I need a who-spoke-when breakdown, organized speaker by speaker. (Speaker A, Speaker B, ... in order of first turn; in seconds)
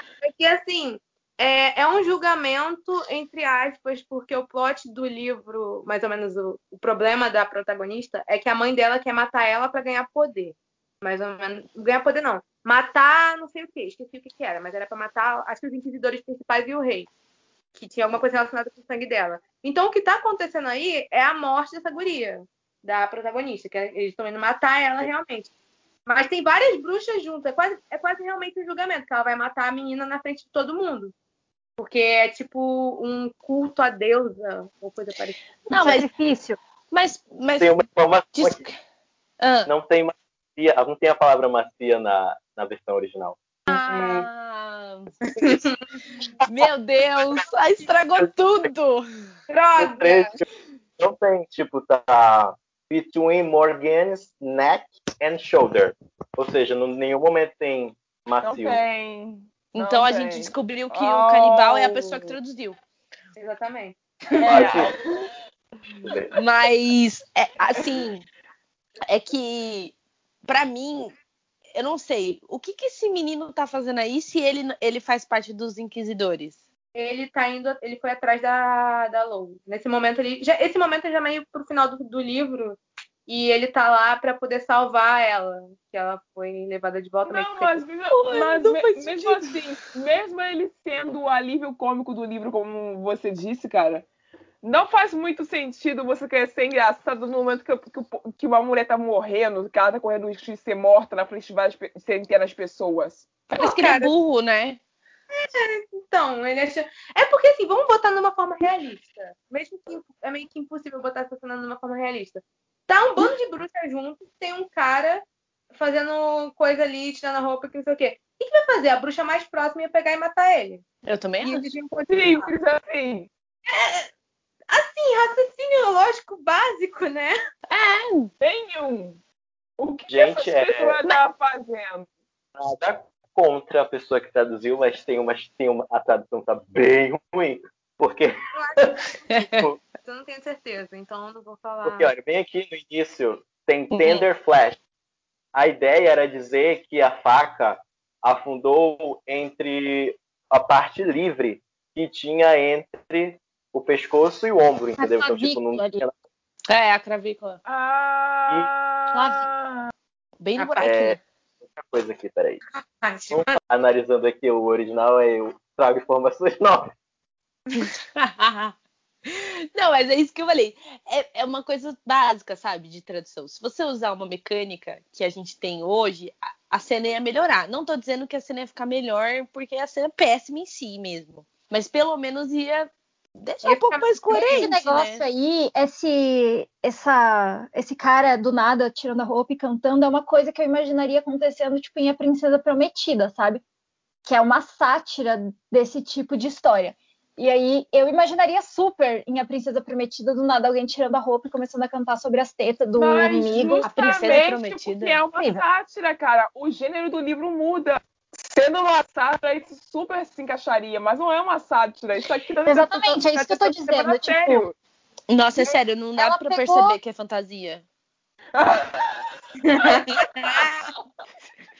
Speaker A: 0.2-17.1, 17.7-25.5, 26.1-31.1, 31.8-35.4, 43.7-44.3, 45.3-45.8, 49.5-50.4, 62.1-62.4, 63.4-64.8, 76.9-87.8, 103.6-104.1, 105.4-120.8, 121.4-122.5, 123.7-124.1, 124.7-127.3, 138.5-142.1, 160.6-160.9, 162.8-163.6, 183.6-184.7, 219.7-220.9
Speaker B: 35.7-36.6, 155.0-156.1, 159.1-159.4, 184.3-193.6, 194.2-204.5, 205.3-205.6, 212.7-214.6, 216.2-217.0
Speaker C: 35.7-36.1, 36.9-37.8, 38.3-38.8, 39.4-39.7, 43.7-45.1, 46.5-49.0, 59.7-62.8, 66.3-68.2, 69.1-71.2, 71.7-76.6, 88.1-89.6, 103.5-104.8, 121.0-121.6, 127.7-128.3, 139.3-139.6, 143.9-144.2, 156.7-157.6, 160.4-161.2, 167.7-168.7, 169.3-185.2, 203.8-205.2, 215.3-217.8
Speaker D: 37.6-38.6, 39.6-43.4, 49.8-50.4, 51.0-58.8, 64.4-64.9, 66.0-66.3, 130.1-131.0, 132.6-138.9, 141.8-144.8, 145.5-156.1, 160.8-161.2, 161.8-162.6, 163.3-166.9
Speaker E: 58.4-61.9, 64.4-65.3, 87.2-94.0, 94.6-103.3, 122.1-123.3, 128.4-129.2, 129.8-132.1, 157.6-159.9, 203.0-214.7, 218.5-219.3